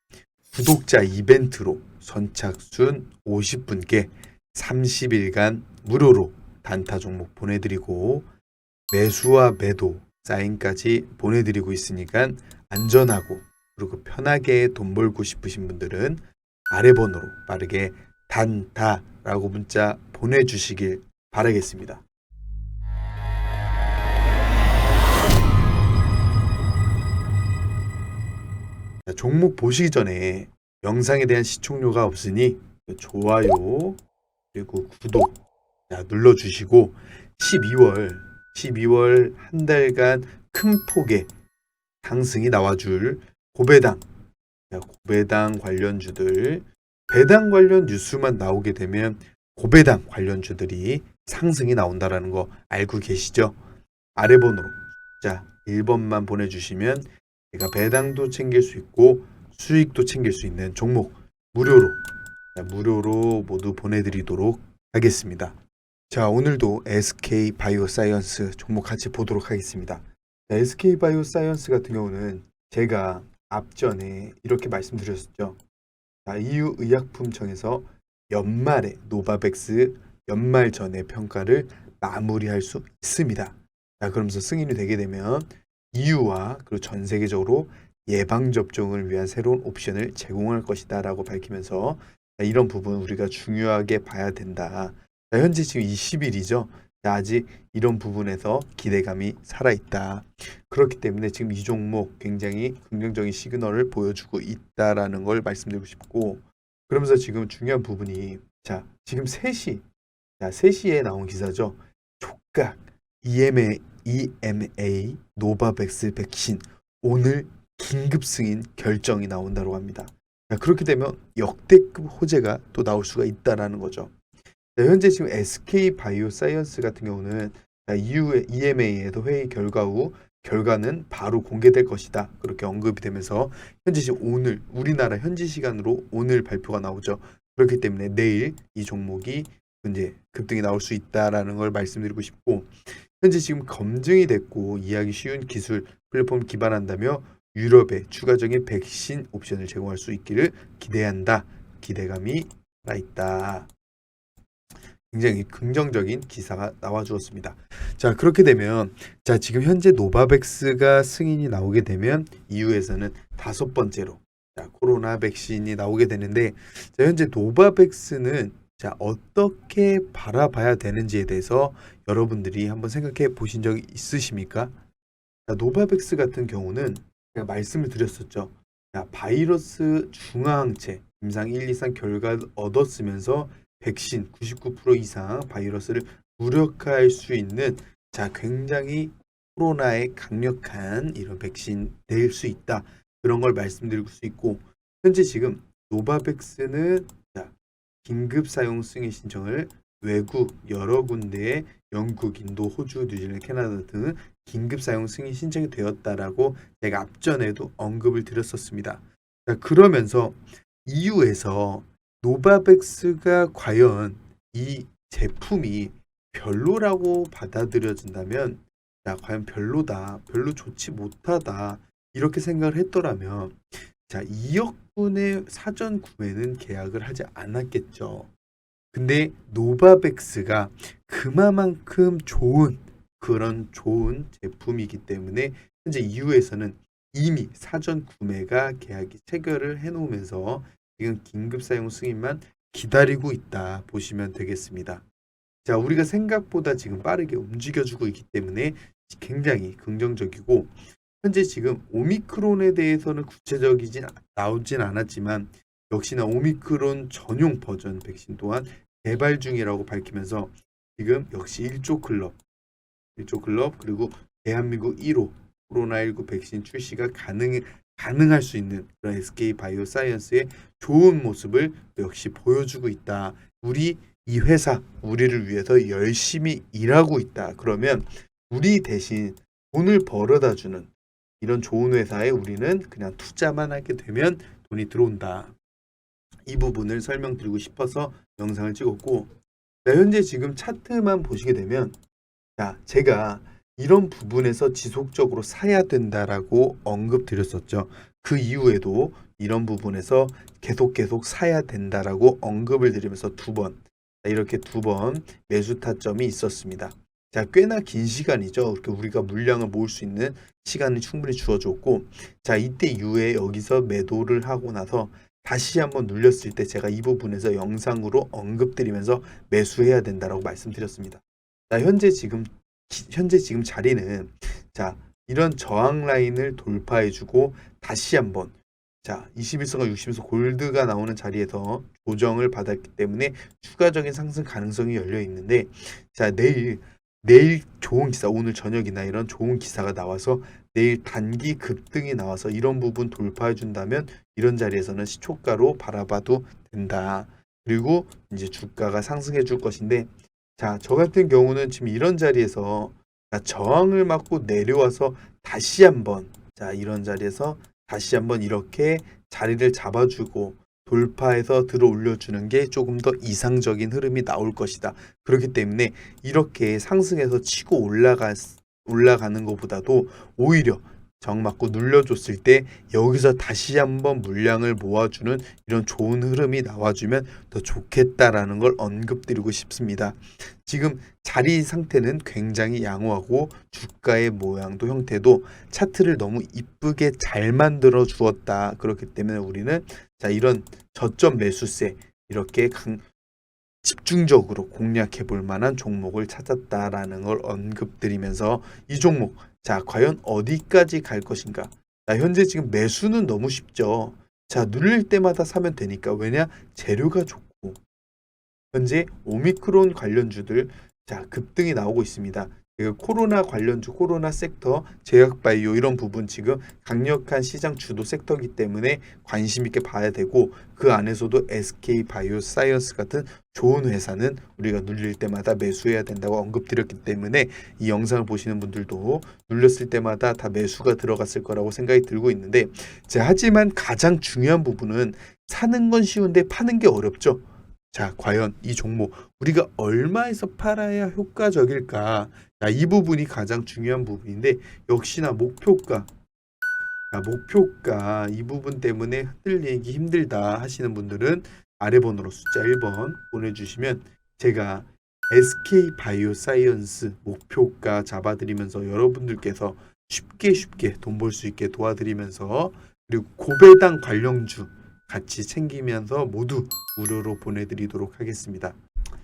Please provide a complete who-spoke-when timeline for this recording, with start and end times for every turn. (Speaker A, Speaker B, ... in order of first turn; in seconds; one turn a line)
Speaker A: 0.5-8.3
Speaker A: 8.9-22.0
Speaker A: 29.1-34.0
Speaker A: 34.5-41.3
Speaker A: 42.0-44.0
Speaker A: 44.7-53.6
Speaker A: 54.2-62.0
Speaker A: 62.5-65.6
Speaker A: 66.1-75.6
Speaker A: 76.3-109.8
Speaker A: 110.4-124.1
Speaker A: 124.8-153.7
Speaker A: 155.1-174.7
Speaker A: 175.5-197.5
Speaker A: 198.0-228.3
Speaker A: 228.9-245.0
Speaker A: 245.7-262.4
Speaker A: 263.2-285.5
Speaker A: 286.5-289.3
Speaker A: 289.9-292.0
Speaker A: 292.6-393.0
Speaker A: 393.8-407.8
Speaker A: 408.7-446.1
Speaker A: 447.1-468.8